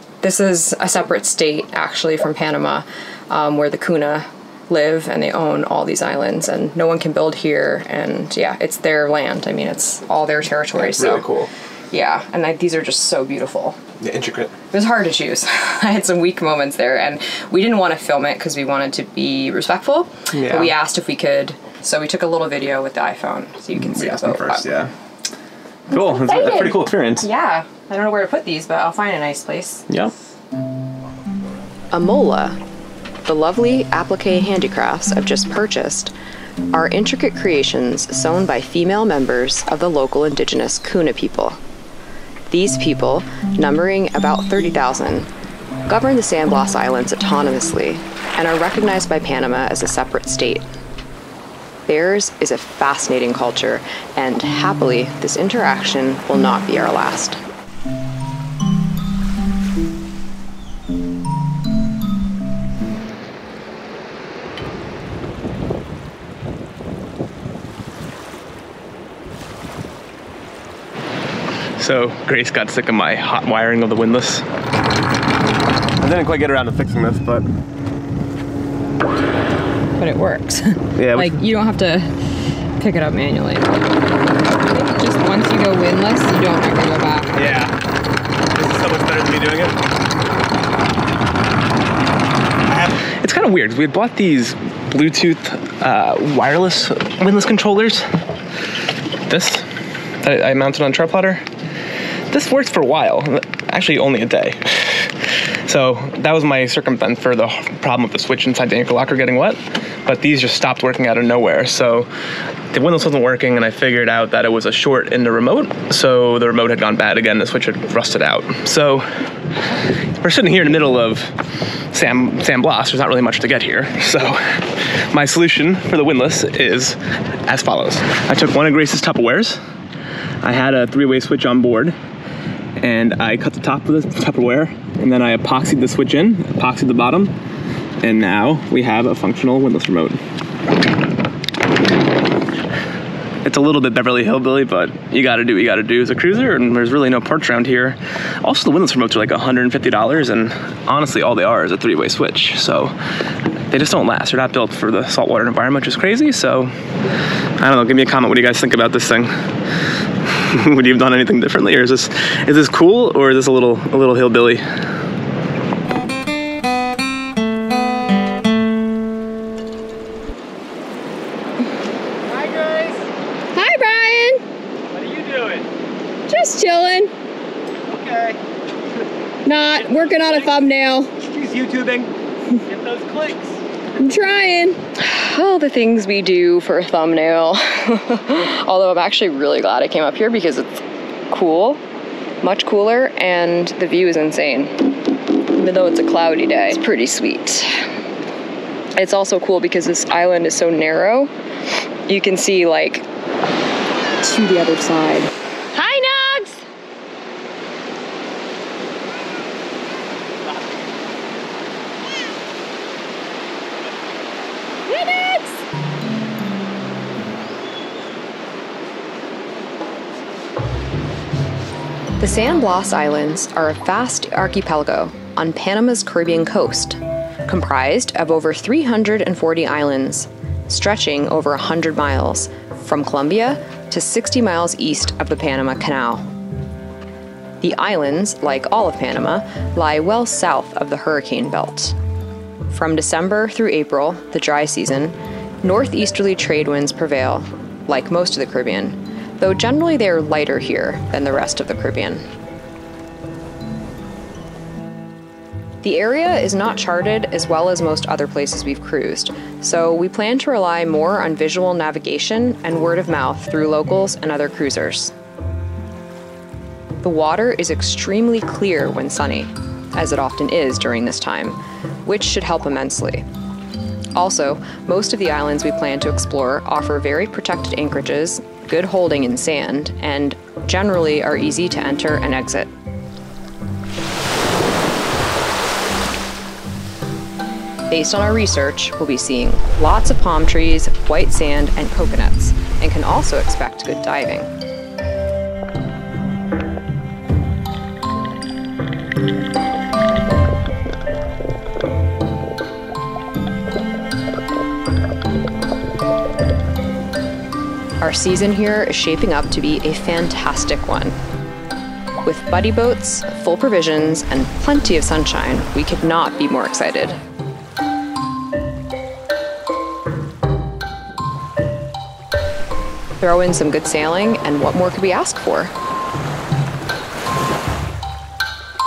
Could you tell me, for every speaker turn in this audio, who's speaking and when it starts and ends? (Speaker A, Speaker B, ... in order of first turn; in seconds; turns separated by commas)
Speaker A: 0.2-11.3, Speaker B: 10.7-11.5, Speaker A: 11.9-13.8, Speaker B: 14.0-14.5, Speaker A: 14.7-24.7, Speaker B: 20.3-20.7, Speaker B: 23.8-24.9, Speaker A: 25.9-29.9, Speaker B: 25.9-27.3, Speaker B: 29.9-30.1, Speaker A: 31.9-32.6, Speaker A: 33.3-36.1, Speaker A: 36.7-41.6, Speaker A: 42.5-45.3, Speaker A: 45.9-50.7, Speaker A: 51.9-57.4, Speaker B: 71.8-74.5, Speaker B: 76.0-77.5, Speaker A: 80.0-82.2, Speaker B: 81.0-81.4, Speaker A: 82.8-83.8, Speaker A: 84.7-87.4, Speaker B: 87.4-87.7, Speaker B: 88.6-89.7, Speaker B: 92.7-98.1, Speaker B: 99.3-99.7, Speaker B: 100.2-101.4, Speaker B: 102.3-112.1, Speaker B: 112.7-119.0, Speaker B: 120.2-121.3, Speaker B: 121.9-129.6, Speaker B: 130.4-132.0, Speaker B: 132.8-137.3, Speaker B: 138.0-140.2, Speaker B: 143.4-152.9, Speaker B: 153.7-156.7, Speaker B: 157.6-159.3, Speaker B: 160.3-164.6, Speaker C: 172.3-173.1, Speaker A: 173.5-174.4, Speaker C: 174.9-175.7, Speaker A: 176.3-177.1, Speaker C: 177.8-178.4, Speaker A: 179.4-181.1, Speaker C: 179.7-180.6, Speaker C: 181.2-183.6, Speaker A: 184.0-191.8, Speaker A: 192.4-194.8, Speaker A: 195.5-197.8, Speaker A: 199.0-201.3, Speaker A: 202.1-203.1, Speaker A: 204.2-206.7, Speaker C: 210.4-210.9, Speaker A: 214.9-215.6, Speaker A: 222.2-236.2, Speaker A: 237.6-242.0, Speaker A: 242.7-252.2, Speaker A: 255.8-265.1, Speaker A: 267.0-273.2, Speaker A: 274.2-282.7, Speaker A: 287.9-294.5, Speaker A: 308.0-311.2, Speaker A: 312.2-317.2, Speaker A: 323.2-325.7